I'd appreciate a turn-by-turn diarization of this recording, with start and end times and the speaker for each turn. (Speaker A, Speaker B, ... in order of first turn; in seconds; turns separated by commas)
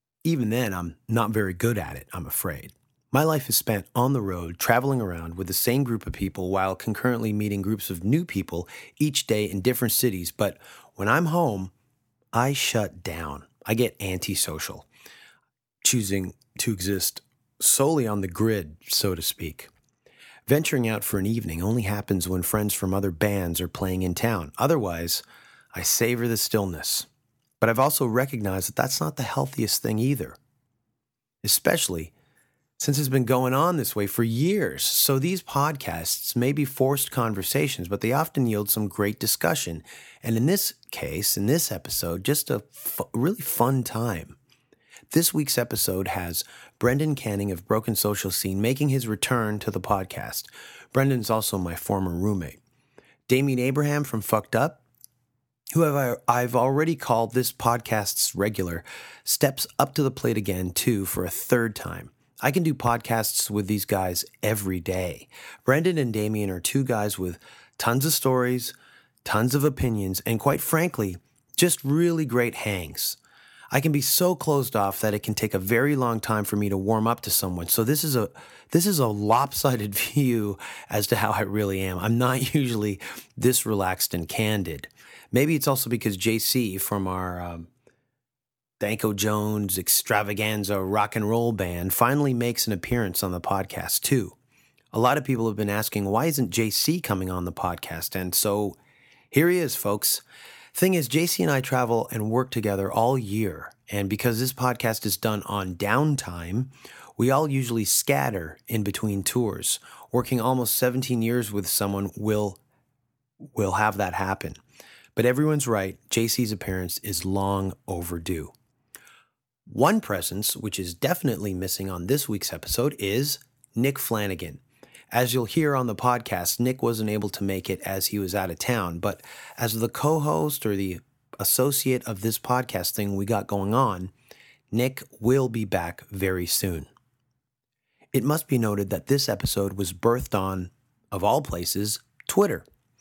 Speaker A: 0.2-11.7, Speaker A: 12.3-14.9, Speaker A: 15.8-19.7, Speaker A: 20.5-27.1, Speaker A: 27.6-30.4, Speaker A: 31.4-32.1, Speaker A: 32.8-44.4, Speaker A: 45.1-52.6, Speaker A: 53.3-54.8, Speaker A: 55.7-73.2, Speaker A: 73.7-87.7, Speaker A: 88.8-94.4, Speaker A: 94.9-98.8, Speaker A: 99.3-112.6, Speaker A: 113.4-114.6, Speaker A: 115.2-118.5, Speaker A: 119.7-134.1, Speaker A: 134.7-136.9, Speaker A: 138.1-142.7